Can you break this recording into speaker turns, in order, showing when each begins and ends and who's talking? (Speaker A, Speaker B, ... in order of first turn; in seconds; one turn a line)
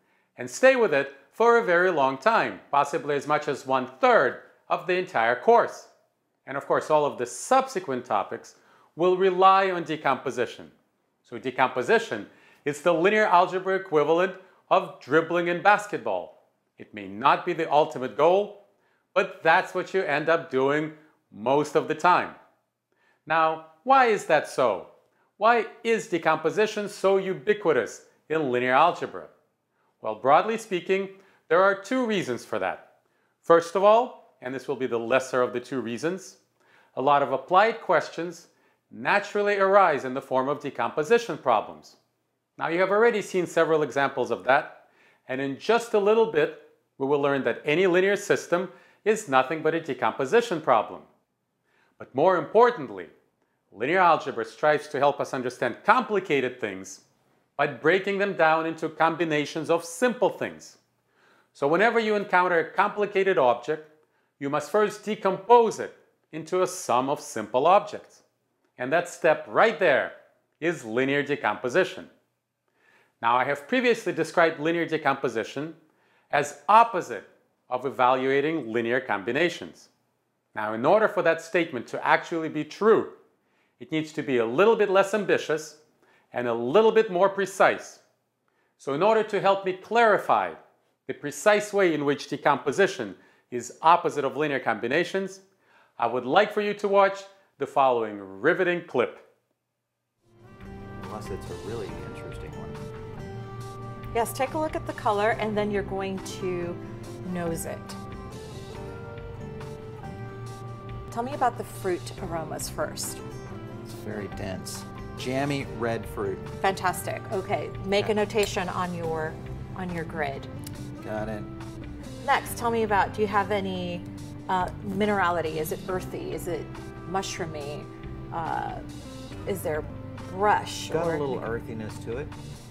Speaker A: 0.4-5.9
Speaker A: 6.5-10.7
Speaker A: 11.2-22.4
Speaker A: 23.3-29.3
Speaker A: 30.0-32.9
Speaker A: 33.4-36.4
Speaker A: 37.0-42.0
Speaker A: 42.6-51.1
Speaker A: 52.0-53.1
Speaker A: 53.7-57.0
Speaker A: 57.6-60.8
Speaker A: 61.5-68.2
Speaker A: 68.8-72.1
Speaker A: 73.2-75.8
Speaker A: 76.3-79.9
Speaker A: 80.5-83.2
Speaker A: 83.8-85.8
Speaker A: 86.3-88.0
Speaker A: 88.8-95.4
Speaker A: 96.0-99.2
Speaker B: 101.0-102.8
Speaker C: 104.1-108.0
Speaker C: 111.1-113.2
Speaker B: 113.8-116.5
Speaker C: 116.6-120.5
Speaker B: 121.0-121.5
Speaker C: 122.2-128.8
Speaker C: 129.5-131.4
Speaker B: 130.9-132.3